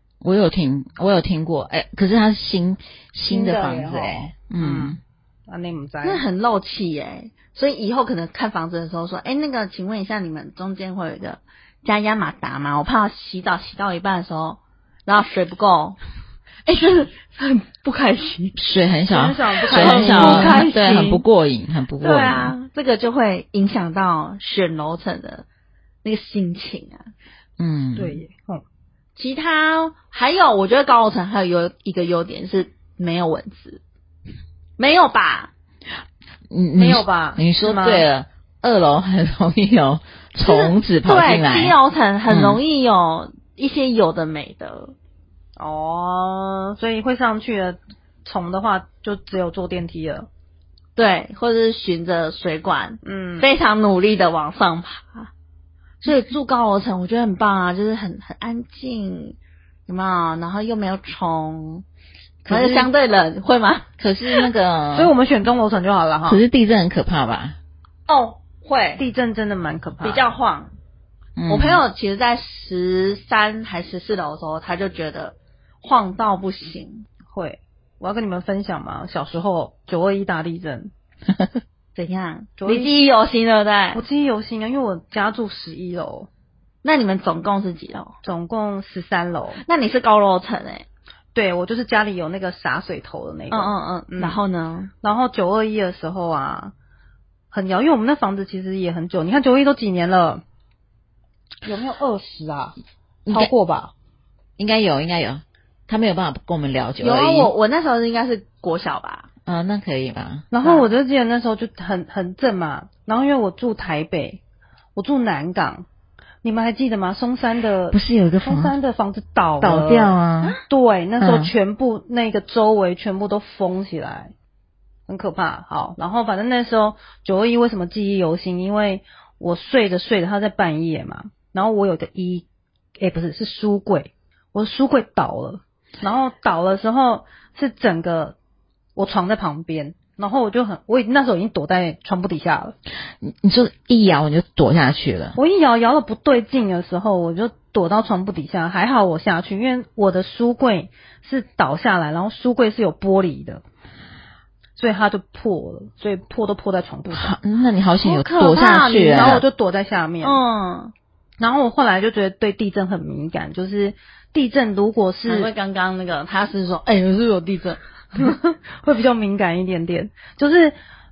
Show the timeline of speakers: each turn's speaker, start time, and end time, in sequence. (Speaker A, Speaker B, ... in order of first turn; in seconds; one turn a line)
Speaker A: 0.2-5.0
Speaker B: 3.3-6.2
Speaker C: 6.0-16.0
Speaker C: 16.6-18.6
Speaker A: 18.6-22.5
Speaker B: 19.1-21.0
Speaker C: 19.7-21.2
Speaker C: 22.0-25.4
Speaker C: 26.0-27.1
Speaker A: 27.6-28.2
Speaker B: 27.9-28.6
Speaker C: 29.1-33.8
Speaker C: 34.8-35.5
Speaker A: 36.5-41.7
Speaker B: 36.8-38.0
Speaker C: 40.5-44.9
Speaker A: 42.3-42.6
Speaker B: 45.6-50.3
Speaker C: 51.0-55.3
Speaker B: 53.0-53.5
Speaker C: 56.0-59.4
Speaker C: 59.9-61.8
Speaker A: 62.4-62.9
Speaker C: 62.5-63.9
Speaker A: 64.0-65.1
Speaker B: 64.9-66.4
Speaker A: 66.2-67.6
Speaker C: 68.1-69.0
Speaker B: 69.0-70.4
Speaker C: 70.0-70.7
Speaker A: 71.4-71.8
Speaker C: 71.5-77.1
Speaker B: 77.3-80.9
Speaker C: 81.9-84.0
Speaker B: 82.6-82.9
Speaker B: 83.9-86.3
Speaker C: 86.8-88.1
Speaker B: 88.2-89.6
Speaker C: 89.6-90.8
Speaker B: 91.3-94.4
Speaker C: 93.5-94.9
Speaker B: 95.0-96.7
Speaker B: 97.5-100.4
Speaker B: 101.6-102.8
Speaker A: 103.2-103.5
Speaker B: 103.3-103.9
Speaker A: 104.6-107.5
Speaker C: 107.0-109.3
Speaker A: 109.5-110.5
Speaker B: 110.5-114.4
Speaker C: 110.6-110.9
Speaker B: 115.0-115.8
Speaker B: 116.4-124.3
Speaker A: 117.9-118.7
Speaker A: 119.6-120.5
Speaker A: 121.2-121.5
Speaker B: 125.1-132.4
Speaker B: 133.0-138.3
Speaker B: 138.9-142.7
Speaker A: 143.2-145.4
Speaker B: 145.3-153.6
Speaker B: 154.8-157.4
Speaker A: 157.1-159.4
Speaker C: 158.0-159.4
Speaker B: 158.9-160.4
Speaker C: 160.2-160.9
Speaker B: 161.4-165.5
Speaker C: 165.2-168.3
Speaker B: 168.2-170.7